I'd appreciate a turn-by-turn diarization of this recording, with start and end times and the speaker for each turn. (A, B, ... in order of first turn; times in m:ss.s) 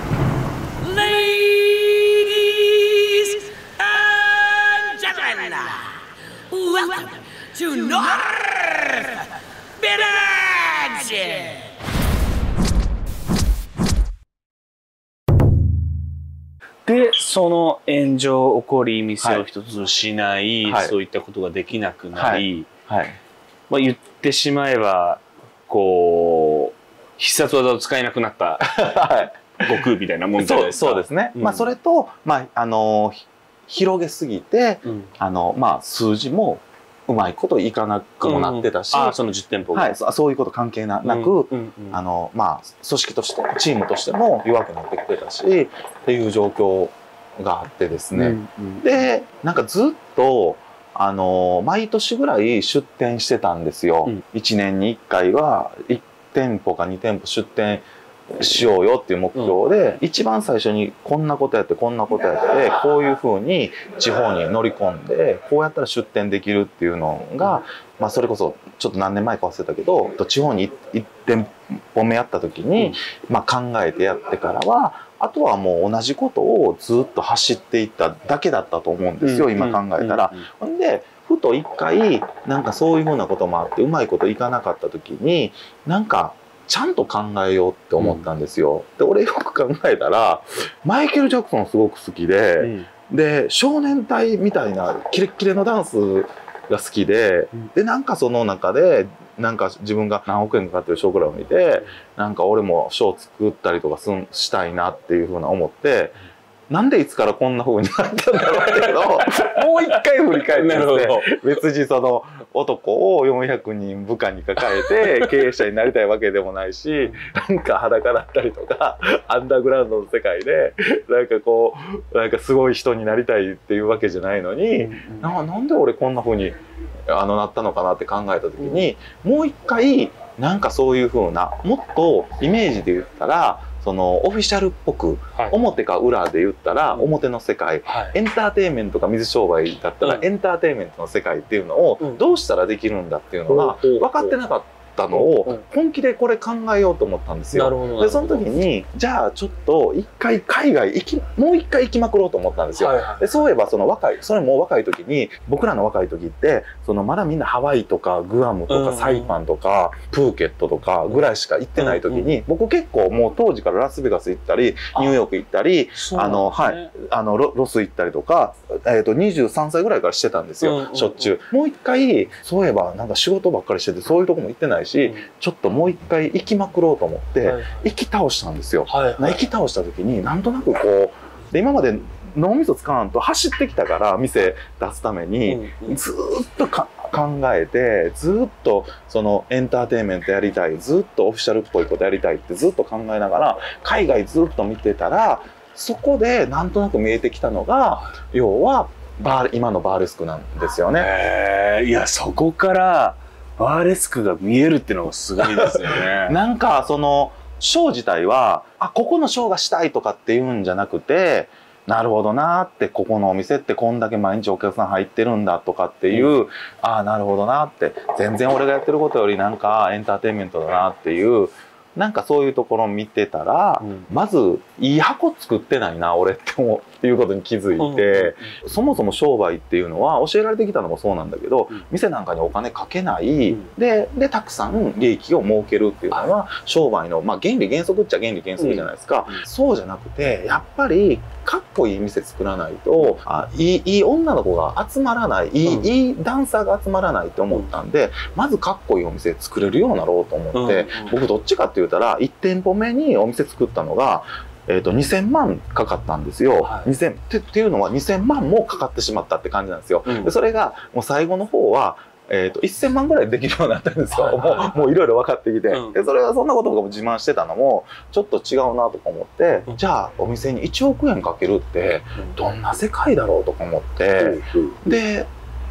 0:00.8-0:11.7 A
0:16.8-0:22.7 B
0:20.6-0:20.9 C
0:22.1-0:23.2 C
0:23.7-0:31.7 B
0:28.6-0:29.7 C
0:30.4-0:39.2 C
0:34.8-0:35.1 B
0:38.2-0:39.9 B
0:39.7-1:46.2 C
0:41.0-0:42.0 B
0:48.1-0:49.1 B
1:19.2-1:20.4 B
1:28.0-1:28.3 B
1:32.6-1:32.9 B
1:46.7-2:06.5 C
1:48.4-1:51.4 B
1:54.8-1:55.3 B
2:04.8-2:05.3 B
2:07.1-3:21.1 C
2:08.6-2:08.9 B
2:17.8-2:18.2 B
2:20.0-2:20.3 B
2:22.0-2:22.2 B
2:23.5-2:24.4 B
2:25.1-2:25.6 B
2:27.5-2:28.4 B
2:32.8-2:33.4 B
2:38.7-2:39.3 B
2:41.8-2:42.4 B
2:45.9-2:46.9 B
2:50.6-2:51.3 B
2:55.0-2:55.2 B
2:57.4-2:57.9 B
2:58.9-2:59.5 B
3:05.4-3:06.0 B
3:21.0-3:26.4 B
3:25.4-4:35.3 C
3:43.8-3:44.1 B
3:47.8-3:48.6 B
3:58.6-3:59.4 B
4:05.6-4:05.9 B
4:10.5-4:11.2 B
4:16.6-4:16.9 B
4:20.0-4:20.3 B
4:24.1-4:24.9 B
4:25.7-4:26.1 B
4:34.2-4:34.8 B